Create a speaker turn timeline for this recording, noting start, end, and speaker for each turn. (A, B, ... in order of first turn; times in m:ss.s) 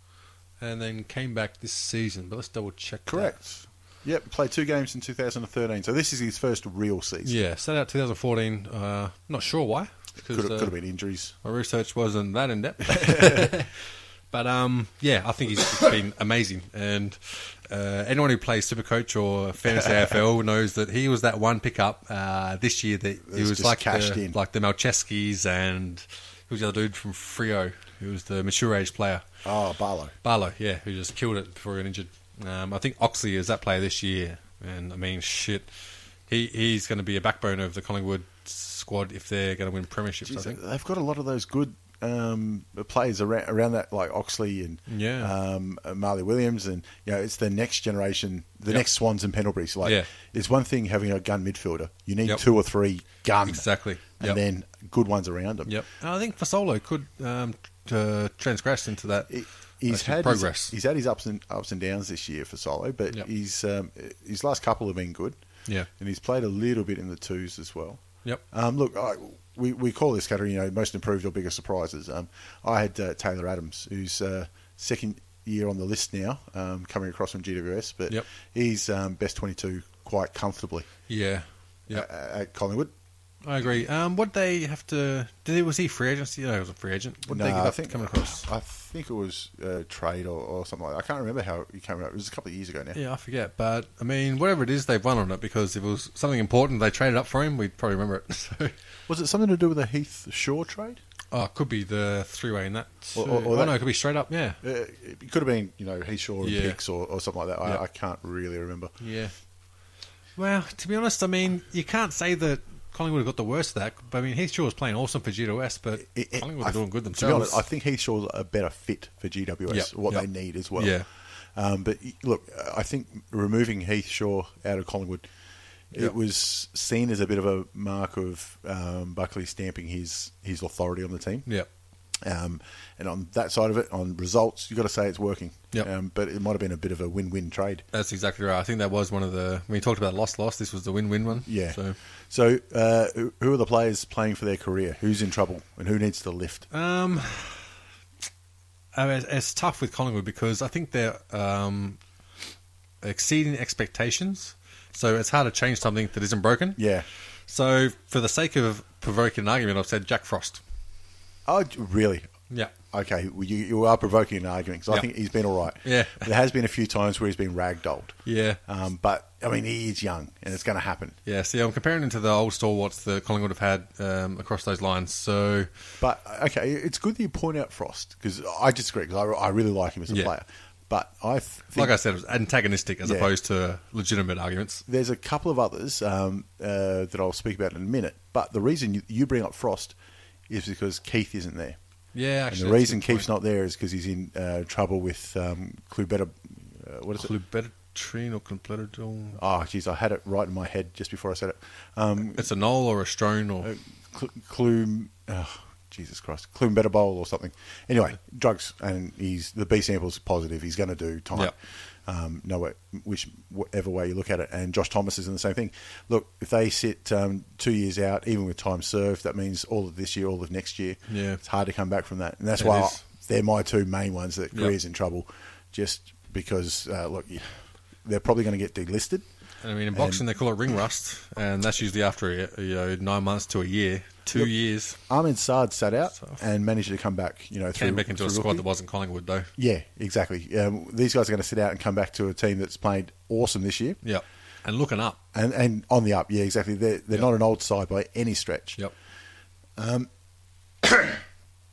0:00.6-0:03.4 A
0:03.1-0:07.4 B
0:07.2-0:10.7 A
0:10.2-0:11.4 B
0:11.4-0:29.3 A
0:13.1-0:13.4 B
0:23.2-0:24.4 B
0:29.4-0:30.2 B
0:30.2-0:35.7 A
0:36.3-0:40.6 A
0:40.3-0:55.8 B
0:44.9-0:45.3 A
0:49.8-0:50.1 A
0:53.4-0:54.4 A
0:55.7-1:00.7 A
0:59.3-1:05.4 B
1:06.0-1:20.9 B
1:21.1-1:22.1 A
1:21.9-1:22.9 B
1:23.4-1:28.5 A
1:27.3-1:33.0 B
1:32.9-1:38.8 A
1:39.1-1:41.0 B
1:41.3-1:44.6 A
1:43.2-1:43.8 B
1:44.6-1:48.9 B
1:46.4-1:46.8 A
1:49.0-1:49.3 A
1:50.4-1:57.6 A
1:56.0-2:05.3 B
1:59.7-2:01.1 A
2:05.9-2:11.5 B
2:12.2-2:17.8 B
2:17.9-2:22.0 A
2:21.5-2:26.7 B
2:26.7-2:27.7 A
2:28.9-2:32.0 A
2:33.0-2:36.9 A
2:36.8-2:37.1 B
2:37.5-2:40.6 A
2:41.5-2:42.3 B
2:42.9-2:51.2 B
2:44.9-2:46.3 A
2:48.2-2:48.6 A
2:51.3-2:55.7 A
2:56.0-3:02.0 B
3:01.7-3:04.9 A
3:03.0-3:03.3 B
3:04.9-3:10.0 B
3:10.5-3:11.8 B
3:12.1-3:13.3 A
3:12.5-3:17.3 B
3:17.2-3:19.4 A
3:19.4-3:22.5 B
3:22.3-3:23.7 A
3:23.6-3:31.5 B
3:32.1-3:49.2 B
3:41.1-3:41.4 A
3:42.6-3:43.0 A
3:49.6-3:55.0 A
3:49.9-3:50.2 B
3:54.3-3:58.6 B
3:57.7-3:59.5 A
3:59.6-4:04.0 B
4:04.0-4:05.2 A
4:05.3-4:08.8 B
4:09.8-4:10.1 B
4:10.8-4:11.2 B